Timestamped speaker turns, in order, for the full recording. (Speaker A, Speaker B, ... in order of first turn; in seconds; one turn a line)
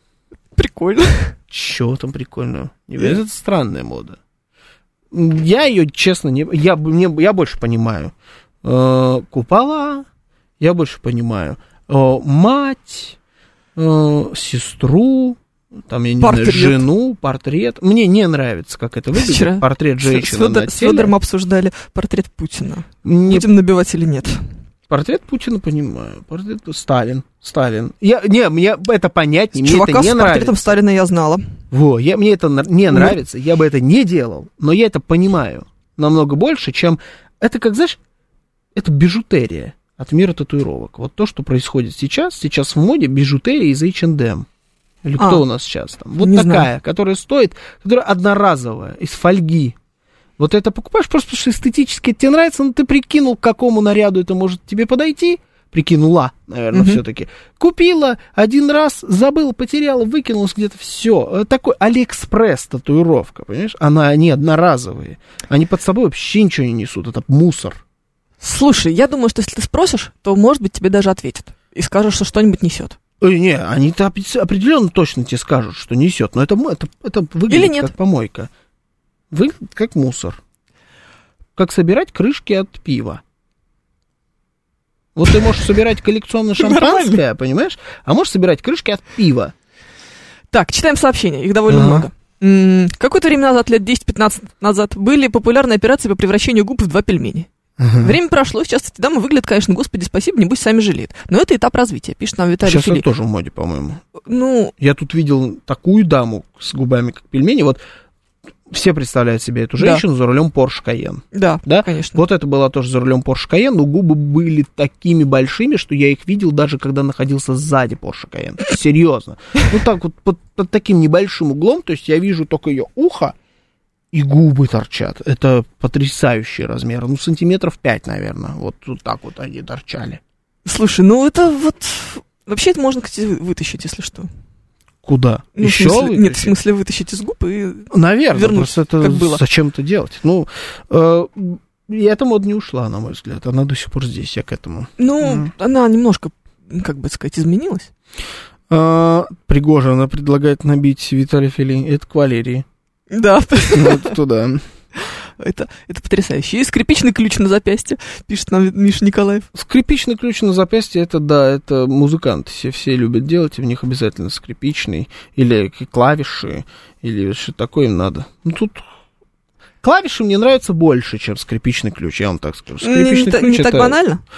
Speaker A: 0.6-1.3
Speaker B: 1.5-4.2
Speaker B: 5.1-10.1
Speaker B: 10.6-13.2
Speaker B: 13.8-21.1
Speaker A: 16.2-16.9
Speaker A: 19.1-24.4
Speaker B: 23.0-23.5
Speaker B: 24.9-30.7
Speaker A: 29.6-31.4
Speaker B: 31.7-38.0
Speaker A: 32.9-33.2
Speaker B: 38.8-44.5
Speaker B: 45.0-49.8
Speaker A: 45.2-45.4
Speaker A: 46.2-46.7
Speaker B: 50.4-67.8
Speaker A: 56.7-57.0
Speaker A: 68.4-73.0
Speaker B: 73.2-78.5
Speaker A: 77.5-77.9
Speaker B: 79.3-80.4
Speaker B: 81.6-83.2
Speaker B: 85.2-89.5
Speaker A: 86.6-87.2
Speaker A: 90.5-97.5
Speaker B: 91.7-92.1
Speaker B: 97.8-98.2
Speaker A: 98.0-103.0
Speaker B: 102.6-104.0
Speaker A: 104.2-104.7
Speaker B: 104.8-107.8
Speaker B: 108.7-123.3
Speaker A: 111.3-112.2
Speaker B: 124.1-130.2
Speaker A: 130.7-134.3
Speaker B: 135.1-136.5
Speaker A: 135.6-139.4
Speaker B: 137.9-145.5
Speaker A: 145.0-147.9
Speaker B: 148.7-152.7
Speaker A: 153.1-154.1
Speaker B: 153.7-154.6
Speaker A: 155.0-159.5
Speaker B: 159.5-168.8
Speaker B: 169.8-174.0
Speaker A: 172.8-174.2